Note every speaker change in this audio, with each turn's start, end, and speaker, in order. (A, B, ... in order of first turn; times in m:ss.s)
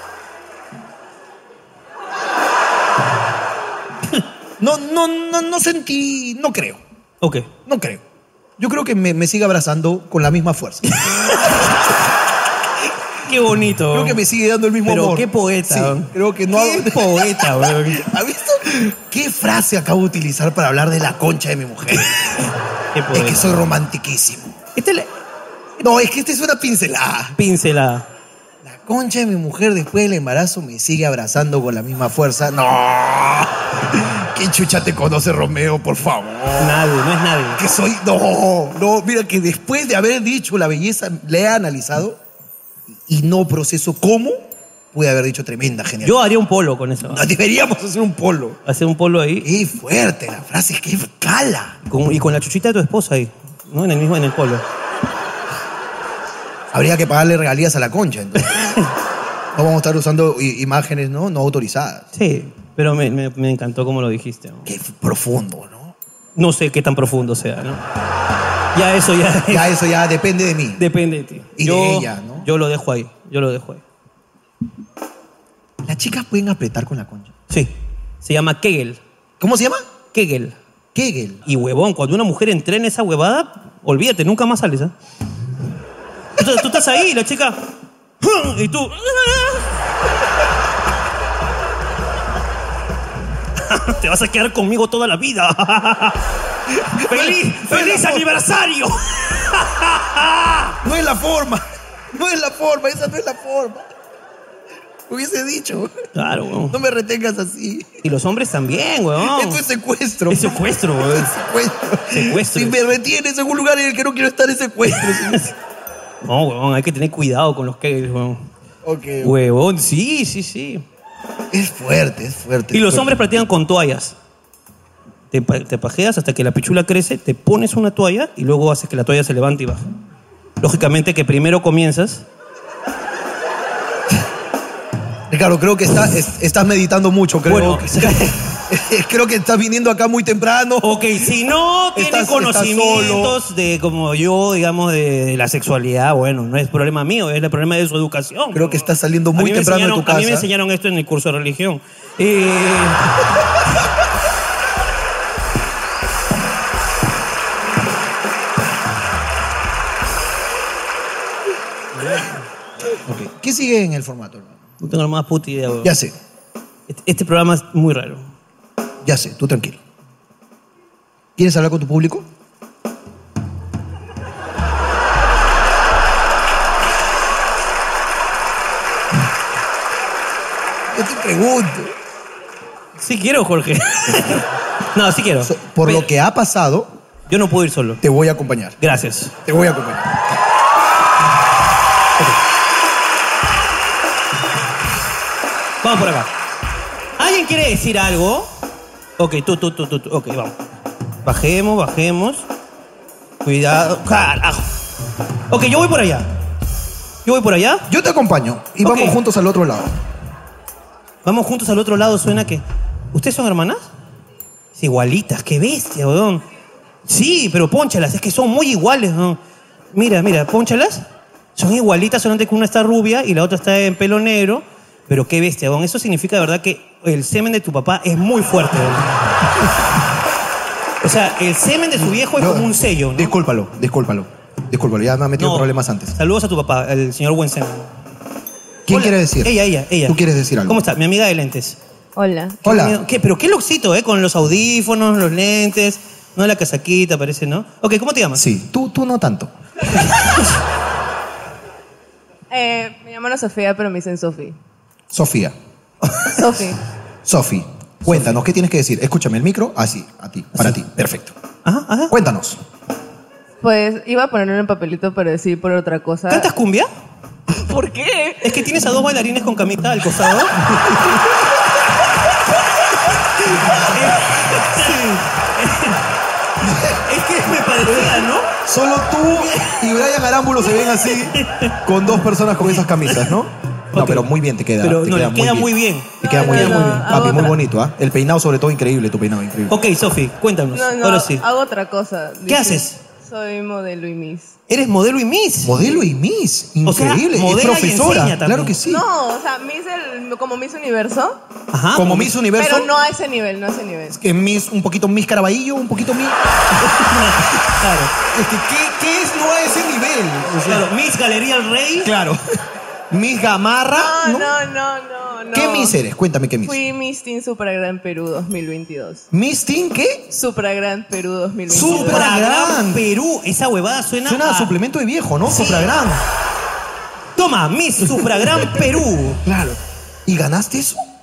0:04.6-0:06.8 A
0:07.2-0:07.5 B
0:07.6-0:08.0 A
0:08.6-0:11.1 A
0:10.9-0:11.8 B
0:13.2-0:14.2 B
0:13.9-0:22.4 A
0:14.8-0:18.0 B
0:22.9-0:23.6 B
0:23.1-0:24.6 A
0:24.8-0:25.1 B
0:25.8-0:27.4 A
0:27.4-0:28.1 B
0:28.6-0:36.8 A
0:36.6-0:37.6 B
0:37.6-0:42.2 A
0:43.0-0:46.2 A
0:46.0-0:47.2 B
0:47.1-0:48.6 A
0:48.6-0:49.5 B
0:49.4-0:51.8 A
0:51.8-0:54.6 B
0:56.7-0:58.7 A
0:58.6-0:58.9 B
0:59.5-1:02.1 A
1:02.1-1:04.7 B
1:04.6-1:05.9 A
1:06.4-1:07.8 B
1:08.7-1:09.7 B
1:09.5-1:10.8 A
1:10.8-1:13.8 B
1:11.6-1:12.5 A
1:15.8-1:17.3 A
1:17.5-1:19.0 B
1:19.4-1:19.8 A
1:20.1-1:20.6 B
1:20.9-1:21.4 A
1:21.4-1:24.9 B
1:26.4-1:27.6 B
1:28.2-1:29.7 B
1:33.6-1:36.2 B
1:36.7-1:38.3 A
1:37.0-1:40.8 B
1:40.8-1:43.9 A
1:45.1-1:46.0 A
1:46.1-1:46.7 B
1:46.7-1:47.9 A
1:48.0-1:49.6 B
1:49.2-1:55.4 A
1:50.3-1:51.3 B
1:52.1-1:52.8 B
1:55.2-1:55.5 B
1:56.2-1:58.5 B
1:58.8-1:59.4 A
1:59.2-2:00.8 B
2:01.5-2:03.1 A
2:02.7-2:04.1 B
2:05.3-2:09.8 B
2:10.6-2:12.2 B
2:15.3-2:21.0 A
2:17.4-2:18.4 B
2:20.8-2:33.0 B
2:21.9-2:23.4 A
2:28.5-2:30.5 A
2:42.0-2:42.4 B
2:43.0-2:44.6 A
2:44.8-2:45.9 B
2:45.8-2:46.1 A
2:46.9-2:48.3 B
2:49.0-2:49.8 A
2:51.4-2:52.3 A
3:00.9-3:01.9 A
3:03.0-3:06.1 B
3:05.4-3:06.9 A
3:07.3-3:08.0 B
3:08.0-3:08.8 A
3:08.8-3:09.4 B
3:09.4-3:10.2 A
3:15.8-3:16.3 B
3:17.2-3:18.5 B
3:19.2-3:20.5 B
3:21.2-3:22.4 B
3:23.4-3:24.7 B
3:25.5-3:26.3 B
3:27.2-3:27.8 B
3:27.9-3:29.9 A
3:28.8-3:29.2 B
3:31.2-3:33.9 B
3:34.8-3:36.4 B
3:37.0-3:39.4 B
3:39.9-3:41.0 B
3:41.6-3:49.1 B
3:51.0-3:53.3 B
3:52.0-3:56.2 A
3:55.4-3:57.9 B
3:58.9-4:00.8 A
3:58.9-4:01.8 B
4:02.2-4:02.6 C
4:02.6-4:08.4 B
4:02.6-4:03.0 A
4:08.3-4:09.5 A
4:10.0-4:10.4 B
4:12.5-4:14.6 C
4:15.1-4:16.3 A
4:16.3-4:16.8 C
4:17.2-4:21.3 A
4:21.6-4:22.1 B
4:22.1-4:22.6 A
4:23.6-4:26.5 C
4:26.3-4:26.9 B
4:27.5-4:28.7 C
4:28.4-4:30.9 B
4:33.5-4:36.1 B
4:36.6-4:37.0 A
4:37.0-4:38.5 B
4:37.7-4:49.8 A
4:39.4-4:39.8 B
4:41.3-4:41.8 B
4:42.6-4:43.3 B
4:43.9-4:44.3 B
4:44.8-4:47.2 B
4:46.2-4:47.6 C
4:49.7-4:51.4 B
4:50.7-4:54.6 C
4:52.5-4:53.0 B
4:54.7-4:55.8 B
4:55.6-4:59.0 A
4:56.8-4:58.8 B
4:58.8-5:01.4 C
5:01.7-5:02.3 B
5:01.9-5:02.9 A
5:02.6-5:04.2 C
5:04.1-5:06.4 A
5:06.8-5:08.1 B
5:08.3-5:10.9 A
5:10.6-5:12.1 B
5:12.0-5:12.4 A
5:13.1-5:14.5 A
5:14.0-5:16.0 C
5:15.5-5:16.8 A
5:16.6-5:19.3 C
5:19.3-5:20.3 A
5:20.3-5:22.3 C
5:21.7-5:23.0 A
5:21.8-5:24.7 B
5:24.2-5:26.2 A
5:25.4-5:25.9 B
5:27.4-5:29.4 B
5:29.4-5:31.0 A